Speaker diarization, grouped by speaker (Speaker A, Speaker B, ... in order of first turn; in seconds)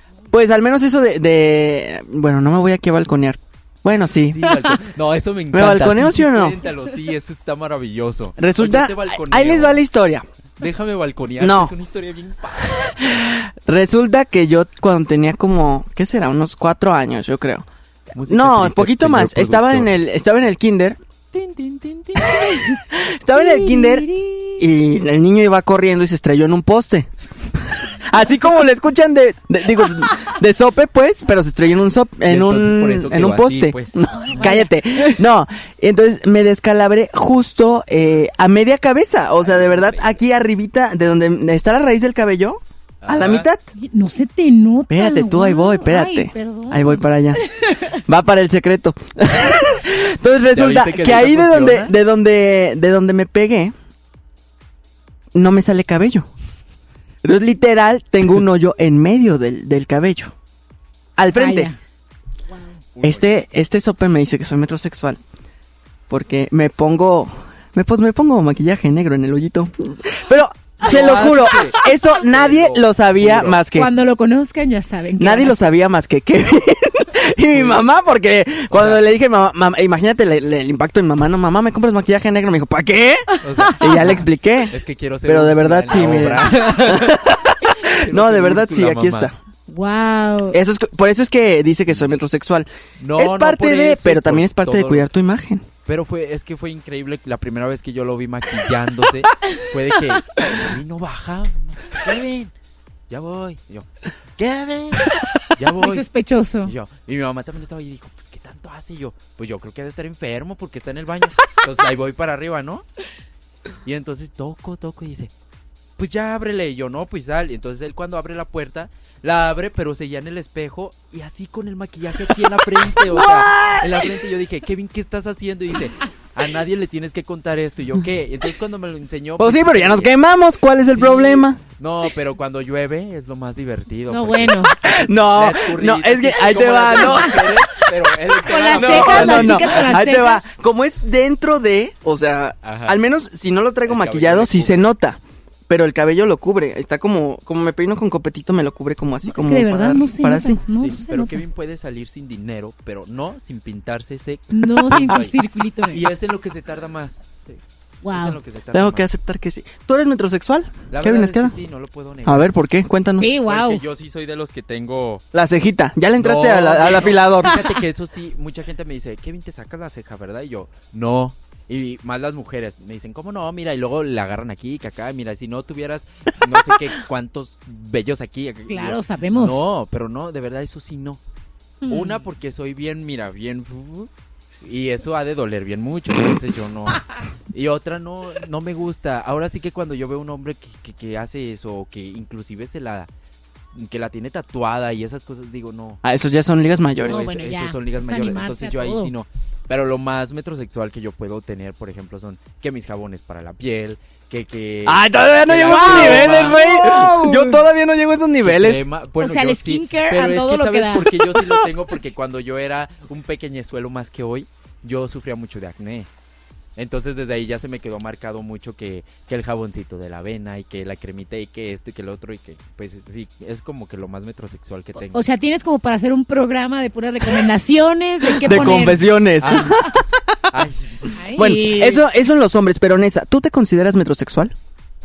Speaker A: 0.3-4.4, 5.5-6.6, 8.4-10.2, 11.4-11.7, 13.0-17.6, 18.3-21.0, 22.9-24.1, 24.6-27.1, 28.0-43.7, 44.9-47.4, 48.0-53.7, 55.3-56.3, 57.2-60.3, 61.2-61.7, 63.0-65.2, 66.1-73.9, 75.2-89.3, 90.5-95.6, 104.4-105.0, 129.4-131.6, 134.8-137.5, 138.7-150.6, 158.7-161.6, 162.2-163.3, 165.3-167.6, 196.0-197.2, 204.8-208.8, 228.3-230.5, 231.3-234.5
Speaker B: 4.3-9.8, 10.6-13.0, 18.1-20.0, 21.3-22.6, 32.3-34.5, 39.4-40.1, 43.0-43.5, 50.5-51.9, 62.9-63.3, 70.8-73.6, 77.5-77.8, 78.7-79.0, 83.4-89.3, 91.9-92.2, 93.0-95.1, 95.8-102.5, 103.1-103.9, 105.6-106.0, 106.6-112.8, 113.8-115.3, 116.0-130.1, 130.9-140.3, 142.6-143.0, 143.8-144.9, 150.7-155.3, 155.9-157.6, 158.1-159.1, 160.9-162.5, 163.1-165.2, 166.2-181.2, 181.9-184.1, 184.6-193.1, 193.7-196.0, 197.0-206.6, 208.4-216.1, 216.8-225.2, 229.4-229.8, 230.5-231.1
Speaker C: 23.3-24.6, 34.3-34.7, 43.8-47.9, 61.3-61.8, 73.7-75.6, 83.9-84.2, 89.7-90.6, 105.8-106.7, 123.3-123.8, 134.1-134.7, 136.9-137.3, 138.5-140.5, 149.2-151.4, 154.5-156.0, 158.0-158.4, 163.2-163.8, 178.7-179.7, 181.8-182.2, 197.1-199.1, 205.7-207.5, 209.2-211.6, 225.0-229.6, 231.1-232.0